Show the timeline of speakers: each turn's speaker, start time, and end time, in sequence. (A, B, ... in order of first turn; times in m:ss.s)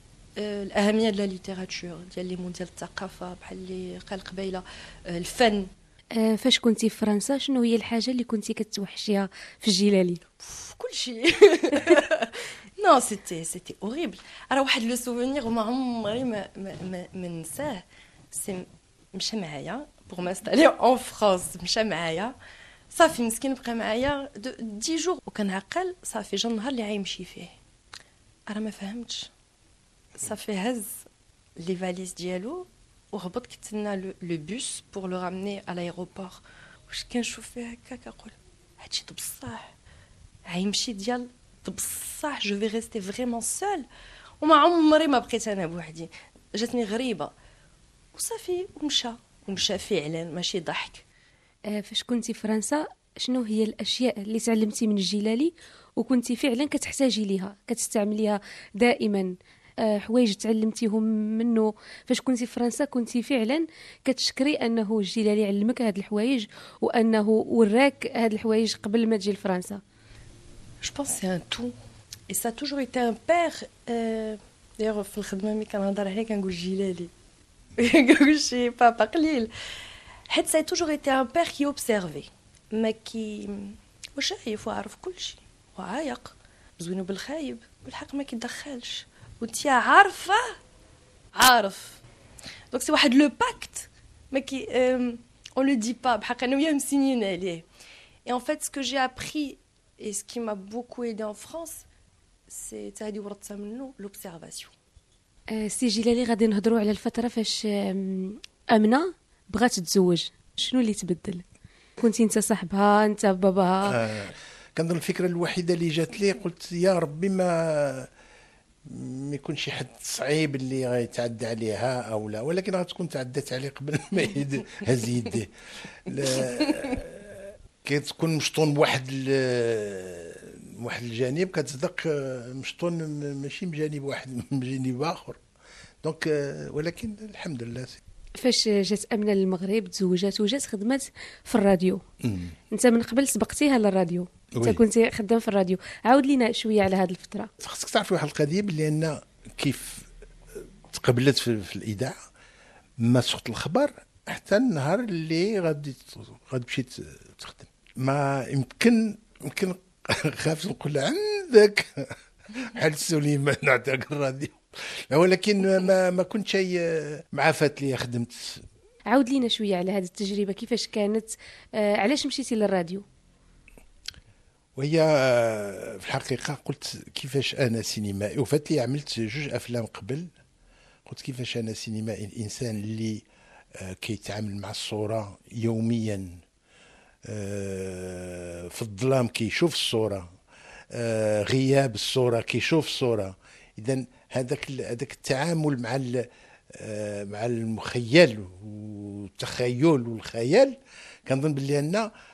0:00.4-0:05.7 A
0:06.1-0:10.2 B
0:10.4-0:22.3 A
0:22.9-0:27.5 A
0:28.5-0:29.3 A
0:30.1-0:31.0 A
0:31.6-0:39.7 A
0:40.5-0:43.8 A
0:44.4-0:47.3 A
0:48.1-0:51.0 A
0:51.7-1:09.8 B
1:10.8-1:11.7 A
1:12.3-1:17.1 A
1:17.8-1:19.5 A
1:20.3-1:30.6 A
1:31.3-1:32.0 A
1:32.7-1:37.6 A
1:38.2-1:41.8 A
1:42.5-1:44.7 A
1:45.5-1:51.4 B
1:52.0-1:54.0 B
1:53.8-1:58.1 C
1:58.8-2:15.4 C
2:16.0-2:18.0 C
2:18.4-2:22.0 B
2:22.2-2:22.5 C
2:22.7-2:27.5 B
2:24.5-2:24.8 C
2:27.6-2:32.1 C
2:33.0-2:48.6 C
2:49.1-2:53.0 B
2:54.8-3:00.3 C
3:01.0-3:06.4 C
3:07.2-3:10.3 C
3:10.9-3:22.1 C